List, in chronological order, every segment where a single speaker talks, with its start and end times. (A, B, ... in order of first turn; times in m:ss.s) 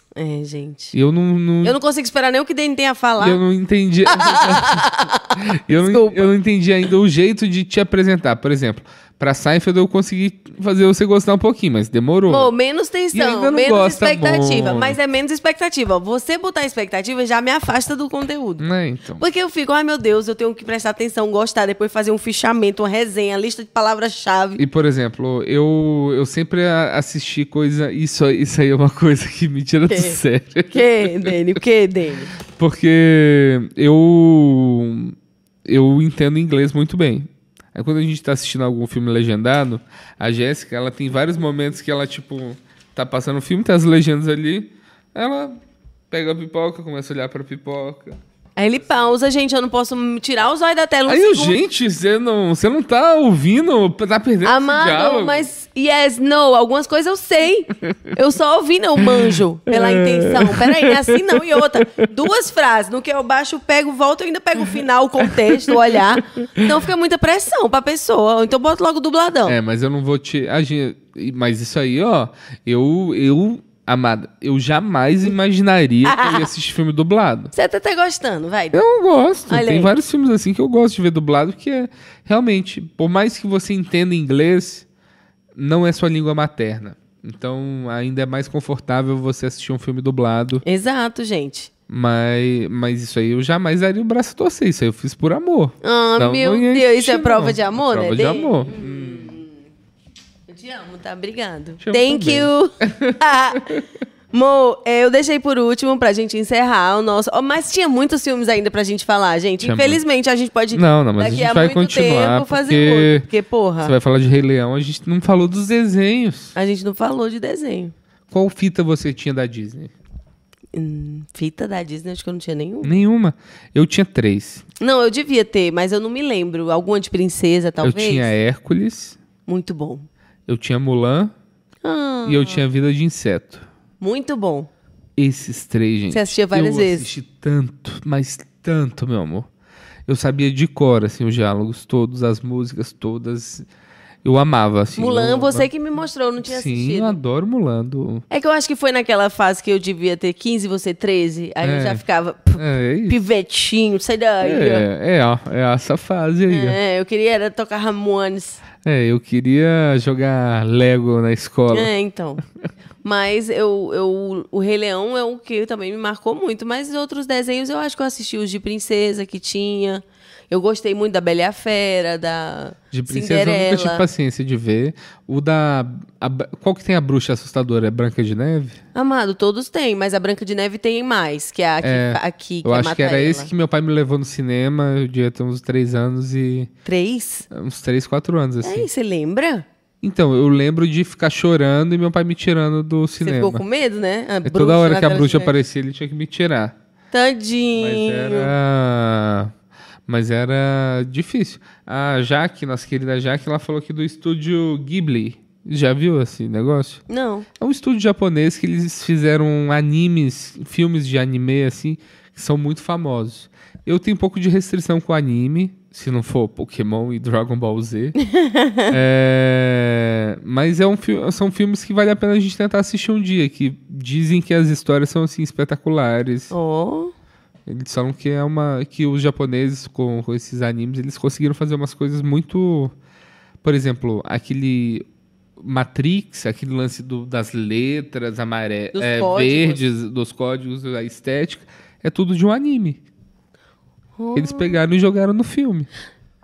0:00.2-0:01.0 A
0:00.9-0:01.8 B
0:01.6-0:03.4 A
0:03.2-0:12.5 B
0:04.1-0:06.3 A
0:12.3-0:18.6 A
0:13.1-0:15.0 B
0:18.6-0:19.2 B
0:19.2-0:24.6 A
0:24.6-0:31.6 B
0:29.9-0:30.2 A
0:30.7-0:32.3 A
0:32.5-0:45.6 B
0:46.1-0:48.2 B
0:48.6-0:51.6 A
0:51.1-0:55.5 B
0:54.4-1:09.6 A
0:59.1-1:02.0 B
1:05.3-1:06.7 B
1:09.5-1:17.5 B
1:16.0-1:16.5 A
1:17.5-1:18.8 A
1:18.7-1:24.9 B
1:19.5-1:20.0 A
1:25.6-1:30.6 B
1:30.6-1:31.7 A
1:31.9-1:39.3 B
1:35.8-1:39.6 A
1:40.5-1:43.8 A
1:41.8-1:43.8 B
1:44.3-1:53.9 A
1:49.6-1:50.0 B
1:50.7-1:53.3 B
1:53.8-1:56.6 B
1:56.6-1:57.9 A
1:58.3-1:59.9 B
2:00.7-2:03.0 A
2:02.8-2:04.6 B
2:04.8-2:08.3 A
2:07.8-2:09.2 B
2:09.5-2:10.1 A
2:10.5-2:11.3 B
2:11.8-2:12.6 A
2:12.2-2:13.7 B
2:14.0-2:14.7 A
2:15.2-2:19.5 B
2:16.1-2:17.1 A
2:20.1-2:23.7 B
2:24.2-2:25.7 B
2:25.0-2:27.2 A
2:26.4-2:28.2 B
2:28.3-2:34.9 A
2:31.6-2:32.0 B
2:32.6-2:33.2 B
2:34.4-2:36.8 B
2:36.5-2:38.6 A
2:38.8-2:41.9 B
2:41.7-2:42.4 A
2:43.0-2:54.0 A
2:52.9-2:58.8 B
2:59.0-3:03.5 A
3:01.8-3:06.7 B
3:06.8-3:07.5 A
3:07.5-3:08.9 B
3:08.6-3:09.6 A
3:10.0-3:13.6 B
3:13.2-3:15.5 A
3:14.4-3:16.8 B
3:17.1-3:18.5 A
3:17.8-3:19.5 B
3:20.1-3:27.0 B
3:27.1-3:27.5 A
3:27.6-3:38.2 B
3:38.2-3:39.0 A
3:38.9-3:46.5 B
3:46.5-3:47.1 A
3:47.7-3:52.9 B
3:53.6-3:55.0 B
3:55.6-4:03.0 B
3:58.9-3:59.8 A
4:04.2-4:04.8 A
4:04.4-4:05.9 B